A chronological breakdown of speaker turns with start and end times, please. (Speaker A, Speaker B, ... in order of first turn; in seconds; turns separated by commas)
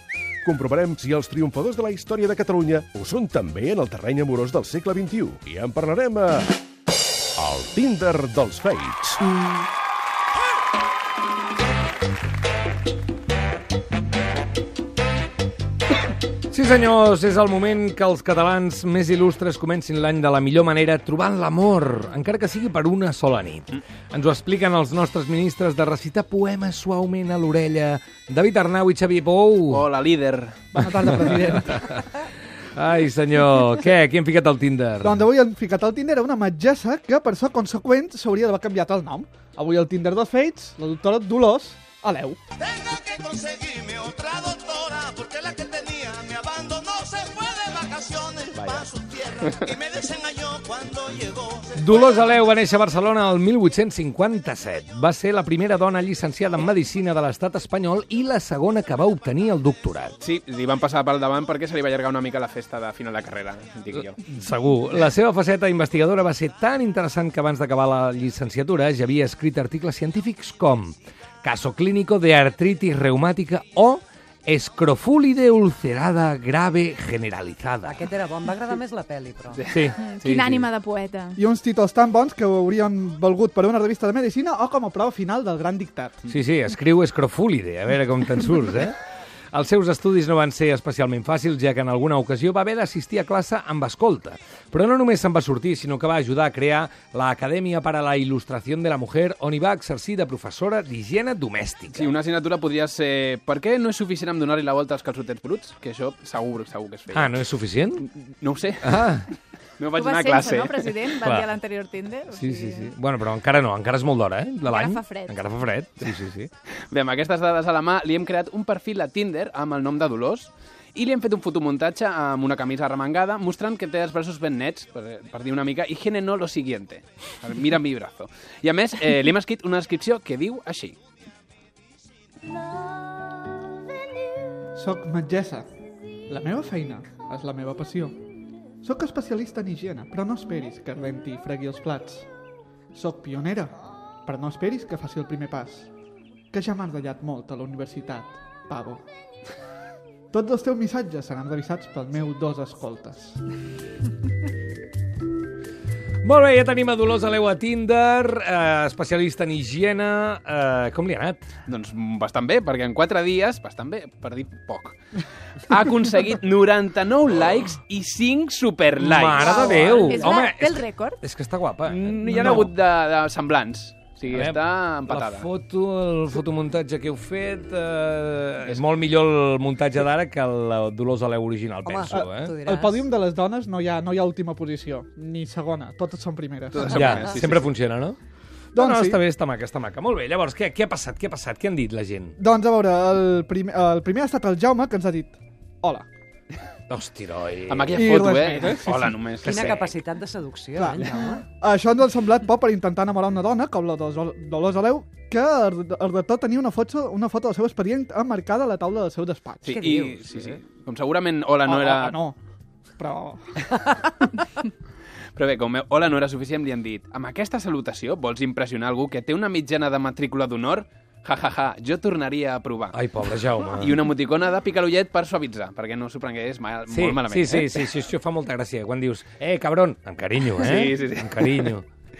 Speaker A: 0.4-6.5, Speaker A: 7.4-9.2, Speaker B: 16.5-29.9, Speaker C: 29.7-30.7, Speaker D: 30.7-31.8, Speaker B: 30.8-32.2, Speaker B: 32.8-35.2, Speaker D: 35.0-42.4, Speaker E: 42.7-48.5, Speaker C: 48.5-49.7, Speaker E: 49.8-51.6, Speaker B: 51.8-60.2, Speaker C: 60.2-64.2, Speaker B: 64.3-78.0, Speaker F: 77.8-79.6, Speaker B: 79.7-80.7, Speaker G: 80.0-81.4, Speaker D: 81.4-86.3, Speaker B: 86.3-89.0, Speaker B: 89.5-102.1, Speaker C: 101.9-107.4, Speaker B: 107.1-108.1, Speaker C: 108.0-109.1, Speaker B: 108.8-109.3, Speaker C: 109.8-111.0, Speaker G: 109.9-112.9, Speaker B: 111.2-111.5, Speaker B: 112.3-116.5, Speaker G: 114.7-115.4, Speaker C: 116.9-131.0, Speaker D: 134.8-135.7, Speaker D: 136.3-138.2, Speaker D: 138.8-142.3, Speaker D: 142.9-143.7, Speaker D: 144.3-145.9, Speaker D: 146.5-149.0, Speaker D: 150.3-153.4, Speaker B: 156.2-161.4, Speaker C: 161.7-165.0, Speaker C: 165.7-170.0, Speaker B: 169.0-172.7, Speaker G: 169.4-171.2, Speaker C: 171.9-175.5, Speaker B: 174.3-182.5, Speaker F: 181.9-183.0, Speaker D: 182.1-186.9, Speaker C: 186.7-187.7, Speaker B: 186.9-188.2, Speaker D: 188.8-189.2, Speaker B: 188.8-192.3, Speaker D: 192.4-196.1, Speaker B: 196.9-198.1, Speaker C: 197.7-200.0, Speaker D: 197.9-199.2, Speaker F: 199.4-201.4, Speaker D: 200.8-209.9, Speaker C: 209.6-212.2, Speaker F: 209.7-210.6, Speaker D: 211.7-212.4, Speaker D: 213.0-213.7, Speaker C: 215.3-223.1, Speaker B: 222.9-223.9, Speaker C: 223.8-227.8, Speaker B: 226.9-231.8, Speaker C: 230.6-231.7